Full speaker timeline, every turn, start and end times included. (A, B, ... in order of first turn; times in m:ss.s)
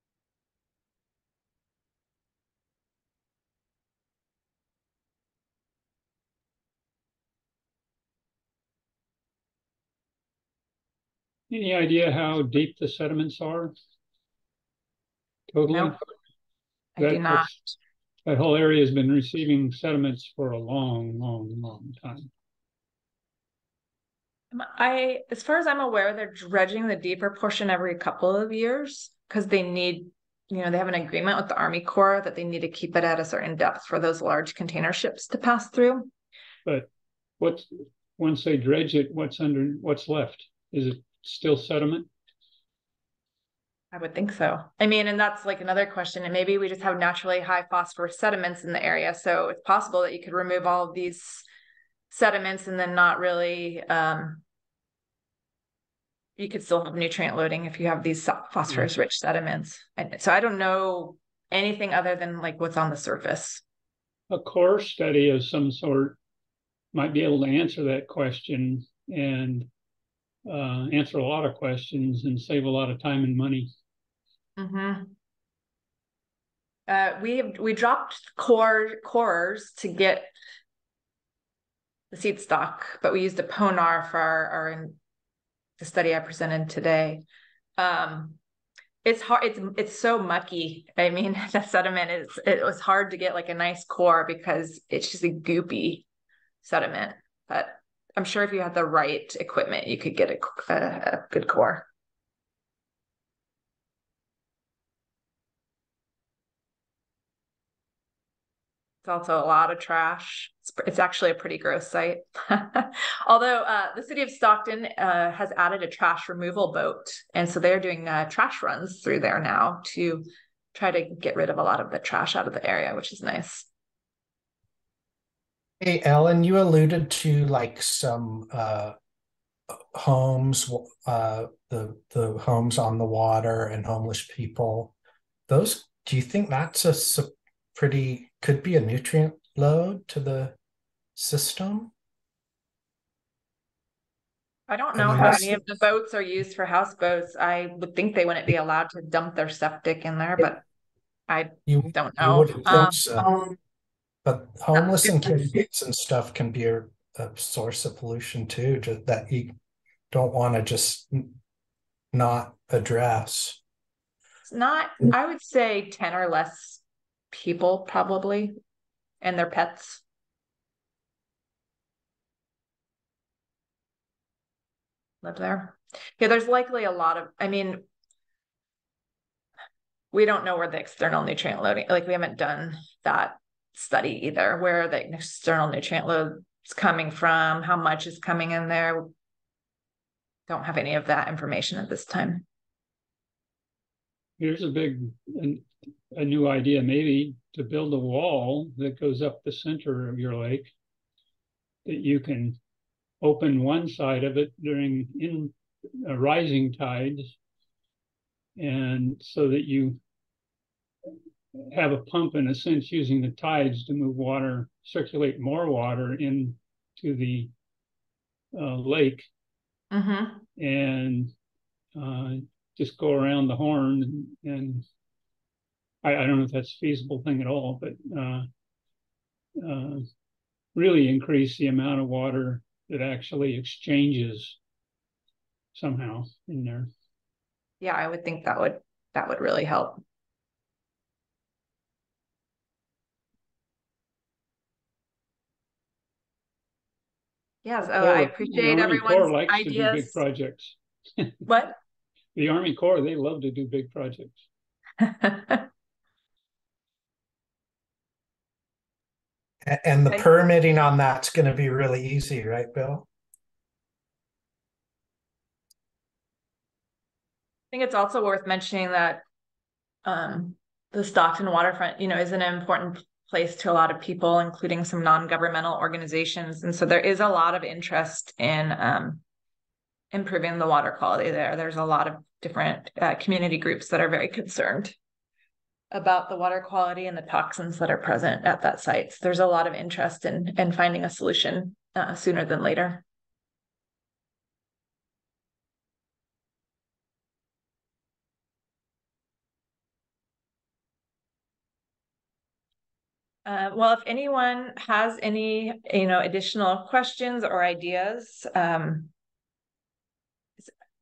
0:11.5-0:13.7 A
0:15.5-0:16.0 A
0:17.0-0:17.7 B
0:17.0-0:17.5 A
0:18.3-0:22.3 A
0:24.5-0:36.1 B
0:37.4-0:42.1 A
0:43.9-0:51.5 B
0:52.1-0:54.4 B
0:56.4-1:03.6 B
1:04.3-1:06.2 A
1:06.9-1:09.7 A
1:10.5-1:13.7 A
1:14.6-1:15.1 B
1:16.9-1:20.3 B
1:22.1-1:25.0 B
1:25.8-1:27.2 B
1:27.8-1:28.4 B
1:29.0-1:36.1 B
1:36.6-1:41.9 B
1:49.0-2:03.7 B
2:05.8-2:09.0 C
2:09.9-2:14.9 C
2:15.5-2:20.6 C
2:21.2-2:21.9 C
2:24.7-2:30.6 B
2:25.0-2:25.6 C
2:31.3-2:33.5 B
2:31.7-2:33.4 C
2:34.2-2:39.6 C
2:40.1-2:41.3 C
2:42.1-2:43.6 C
2:44.5-2:48.6 B
2:49.2-2:50.0 B
2:55.2-2:57.8 B
3:00.1-3:09.1 B
3:10.5-3:12.4 B
3:14.4-3:20.7 A
3:21.8-3:22.6 A
3:23.2-3:25.5 A
3:26.0-3:27.3 A
3:28.6-3:30.0 A
3:31.7-3:37.5 A
3:38.5-3:39.3 A
3:39.9-3:40.4 B
3:40.6-3:41.3 A
3:42.0-3:44.8 A
3:46.0-3:48.5 A
3:49.6-3:50.1 A
3:50.8-3:54.6 A
3:55.7-3:56.9 A
3:57.8-4:00.0 B
4:07.6-4:10.2 B
4:07.8-4:11.4 A
4:11.5-4:11.8 B
4:12.4-4:14.4 A
4:15.0-4:15.7 B
4:19.7-4:23.1 C
4:27.7-4:29.2 B
4:30.0-4:39.2 B
4:40.1-4:45.0 B
4:45.9-4:53.0 B
5:03.5-5:09.1 B